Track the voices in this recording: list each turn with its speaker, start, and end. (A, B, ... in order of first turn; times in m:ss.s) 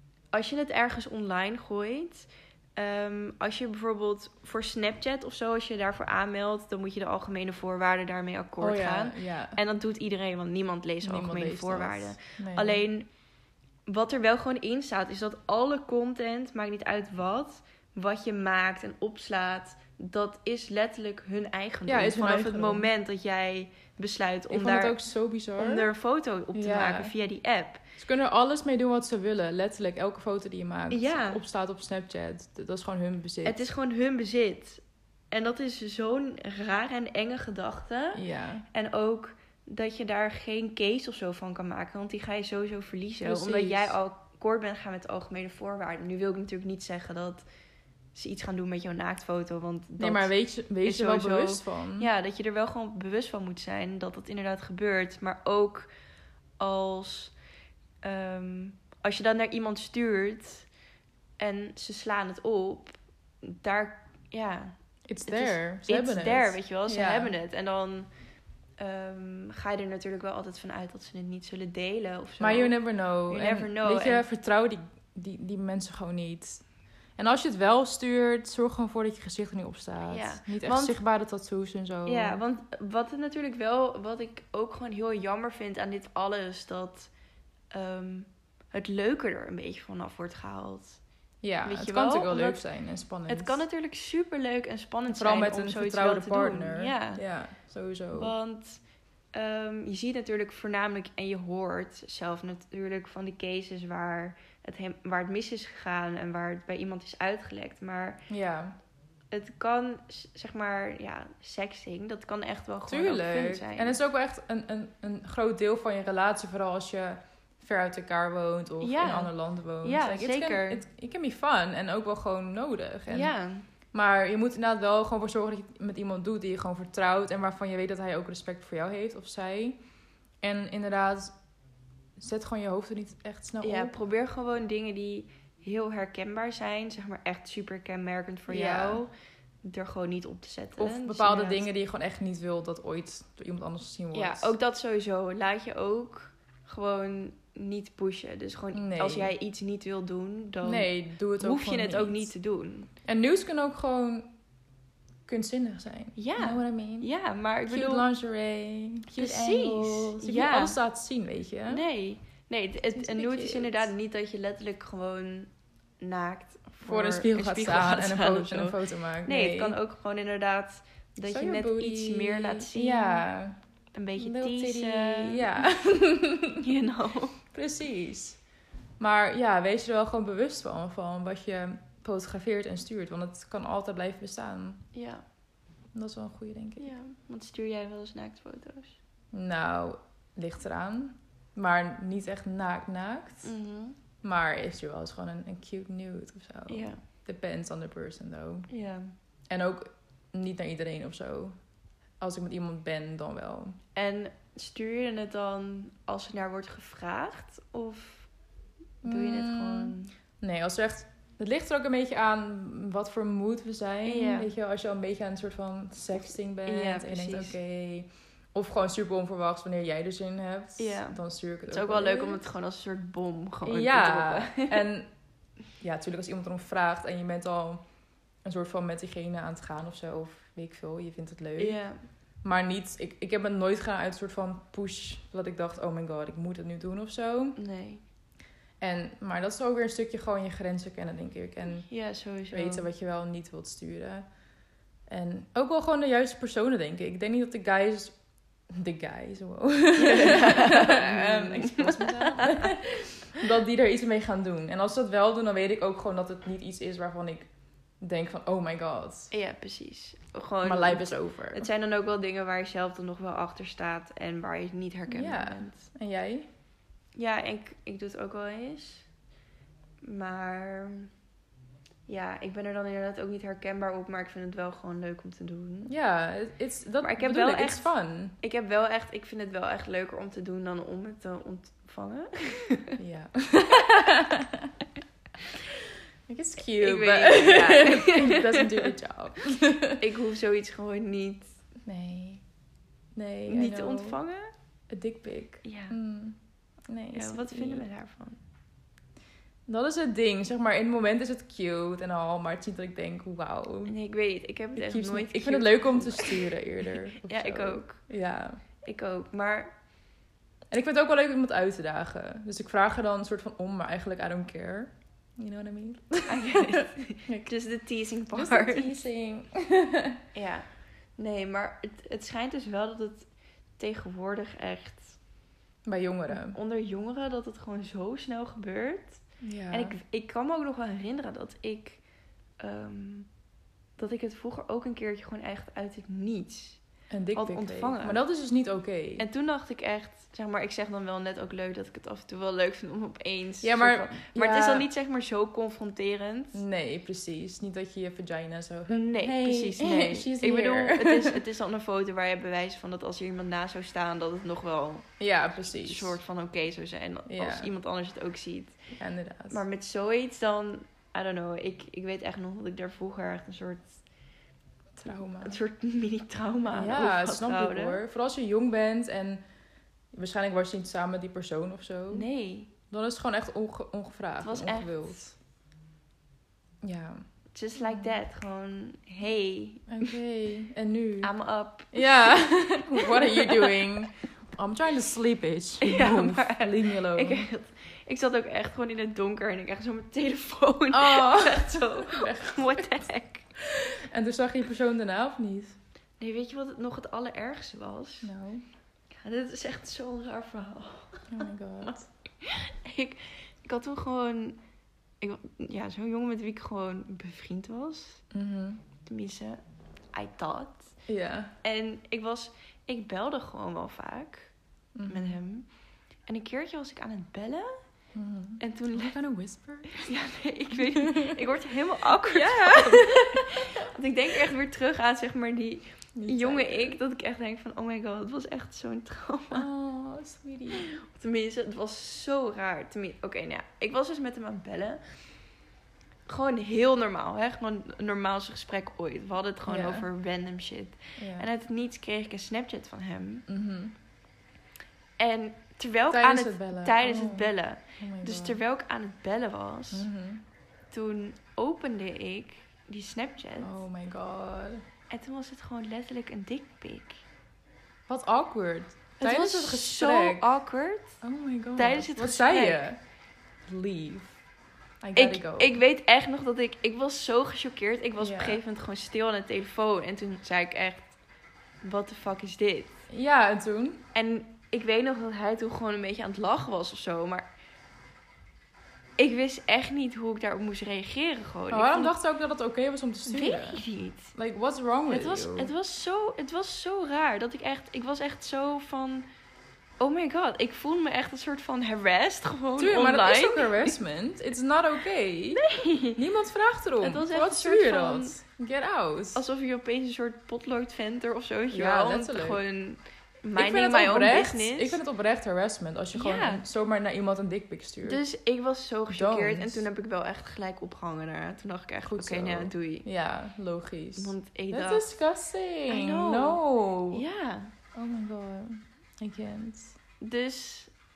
0:00.3-0:13.1 A
0:08.6-0:09.6 B
0:11.0-0:12.8 B
0:13.9-0:25.0 A
0:21.9-0:22.9 B
0:24.5-0:25.9 B
0:25.6-0:27.8 A
0:26.5-0:27.1 B
0:28.0-0:33.6 B
0:30.9-0:31.4 A
0:33.4-0:47.4 A
0:38.1-0:38.6 B
0:43.2-0:43.9 B
0:48.1-0:55.9 A
0:50.0-0:52.1 B
0:56.6-0:57.3 A
0:58.0-1:00.7 A
1:01.4-1:04.8 A
1:05.1-1:07.3 B
1:05.3-1:08.1 A
1:08.8-1:14.2 A
1:12.4-1:16.6 B
1:17.2-1:22.4 B
1:20.1-1:21.0 A
1:22.0-1:27.1 A
1:27.7-1:31.0 A
1:31.4-1:33.6 B
1:31.6-1:32.6 A
1:33.3-1:37.2 A
1:35.1-1:38.3 B
1:38.1-1:38.8 A
1:39.3-1:48.2 A
1:48.3-1:48.8 B
1:49.3-1:54.0 A
1:52.9-2:03.3 B
1:58.8-2:00.8 A
2:03.1-2:03.7 A
2:03.9-2:09.8 B
2:10.4-2:11.4 B
2:12.2-2:13.9 B
2:13.6-2:19.1 A
2:18.5-2:19.0 B
2:19.6-2:21.7 A
2:20.8-2:24.5 B
2:24.1-2:32.9 A
2:28.7-2:29.3 B
2:30.6-2:32.3 B
2:33.0-2:34.3 B
2:35.3-2:37.1 B
2:36.2-2:38.0 A
2:37.6-2:41.8 B
2:39.1-2:40.8 A
2:41.7-2:53.2 A
2:42.9-2:43.9 B
2:46.8-2:49.8 B
2:51.2-2:53.6 B
2:53.9-2:55.6 A
2:54.2-2:56.6 B
2:56.6-2:57.4 A
2:57.5-2:58.4 B
2:59.0-3:04.8 B
3:04.9-3:05.2 A
3:05.9-3:06.9 B
3:06.8-3:09.0 A
3:09.3-3:13.5 B
3:13.4-3:14.0 A
3:14.2-3:18.7 B
3:16.7-3:17.0 A
3:18.7-3:19.1 A
3:19.5-3:21.6 B
3:22.2-3:23.8 B
3:23.9-3:28.3 A
3:29.0-3:30.1 A
3:29.0-3:42.4 B
3:34.0-3:34.5 A
3:36.6-3:37.6 A
3:40.8-3:44.8 A
3:43.6-3:45.1 B
3:45.8-3:47.8 B
3:48.4-3:51.8 B
3:51.6-3:52.0 A
3:52.4-3:57.6 B
3:57.6-3:58.0 A
3:58.8-4:01.9 B
4:01.8-4:02.9 A
4:02.5-4:04.3 B
4:05.1-4:08.2 B
4:08.7-4:17.5 B
4:10.0-4:12.8 A
4:18.0-4:19.3 B
4:19.3-4:25.8 A
4:20.6-4:21.7 B
4:25.1-4:26.5 B
4:27.2-4:29.1 A
4:30.0-4:31.1 A
4:32.1-4:35.9 A
4:35.9-4:38.4 B
4:37.0-4:43.0 A
4:43.0-4:44.7 B
4:46.3-4:50.0 B
4:46.7-4:48.9 A
4:50.0-4:51.6 A
4:51.8-4:52.4 B
4:53.1-4:54.2 B
4:53.5-4:54.5 A
4:54.9-4:57.8 B
4:55.6-4:56.0 A
4:57.1-4:58.4 A
4:59.7-5:04.0 B
5:03.8-5:06.5 A
5:04.7-5:08.6 B
5:07.2-5:08.0 A
5:08.8-5:09.7 A
5:10.7-5:17.5 B
5:16.3-5:18.9 A
5:18.3-5:20.2 B
5:20.3-5:25.2 A
5:25.8-5:26.6 B
5:26.3-5:32.0 A
5:29.4-5:30.0 B
5:32.6-5:33.3 A
5:34.0-5:36.8 A
5:37.1-5:39.2 B
5:37.3-5:38.2 A
5:39.2-5:46.6 A
5:43.6-5:44.9 B
5:46.5-5:51.4 B
5:48.9-5:55.2 A
5:55.2-5:56.2 B
5:55.7-5:58.8 A
5:57.2-5:57.7 B
5:59.0-5:59.6 B
5:59.5-6:04.0 A
6:05.0-6:05.6 B
6:05.4-6:08.0 A
6:06.7-6:09.4 B
6:10.1-6:12.3 B
6:12.1-6:12.7 A
6:12.9-6:15.4 B
6:14.4-6:15.2 A
6:16.8-6:17.2 B
6:17.5-6:20.1 A
6:17.8-6:18.2 B
6:19.9-6:21.3 B
6:21.2-6:24.0 A
6:21.9-6:27.5 B
6:25.8-6:33.4 A
6:30.9-6:33.0 B
6:33.6-6:35.8 B
6:36.2-6:38.3 A
6:38.2-6:38.6 B
6:39.2-6:44.6 A
6:41.3-6:42.1 B
6:45.2-6:48.2 A
6:48.3-6:48.8 B
6:49.0-6:49.6 A
6:50.1-6:51.0 A
6:51.1-6:51.5 B
6:51.6-6:54.5 A
6:54.9-6:55.4 B
6:55.1-6:55.7 A
6:56.3-6:57.8 A
6:58.1-7:00.1 B
6:58.6-6:59.2 A
6:59.9-7:09.6 A
7:00.7-7:01.4 B
7:02.2-7:03.6 B
7:06.2-7:07.0 B
7:09.5-7:10.8 B
7:10.8-7:15.0 A
7:16.3-7:23.4 A
7:19.6-7:20.1 B
7:21.2-7:21.5 B
7:23.5-7:24.0 B
7:25.2-7:30.1 A
7:26.1-7:28.6 B
7:29.9-7:30.4 B
7:30.9-7:33.8 A
7:33.6-7:34.8 B
7:35.1-7:37.2 A
7:38.1-7:40.5 B
7:39.2-7:41.2 A
7:41.2-7:43.0 B
7:41.8-7:42.8 A
7:43.6-7:44.4 B
7:45.0-7:45.8 B
7:45.2-7:51.2 A
7:48.2-7:48.6 B
7:51.8-7:53.0 A
7:53.1-7:54.0 B
7:54.1-7:57.5 A
7:59.2-8:02.1 A
8:01.7-8:03.8 B
8:03.2-8:04.3 A
8:04.3-8:05.7 B
8:05.1-8:09.2 A
8:10.0-8:14.0 A
8:12.8-8:19.4 B
8:15.5-8:16.2 A
8:17.0-8:18.4 A
8:19.3-8:25.0 A
8:21.7-8:22.6 B
8:23.6-8:28.2 B
8:26.1-8:26.6 A
8:28.0-8:33.0 A
8:29.1-8:29.8 B
8:32.0-8:37.2 B
8:34.2-8:35.0 A
8:35.9-8:37.7 A
8:37.9-8:40.0 B
8:40.2-8:40.9 A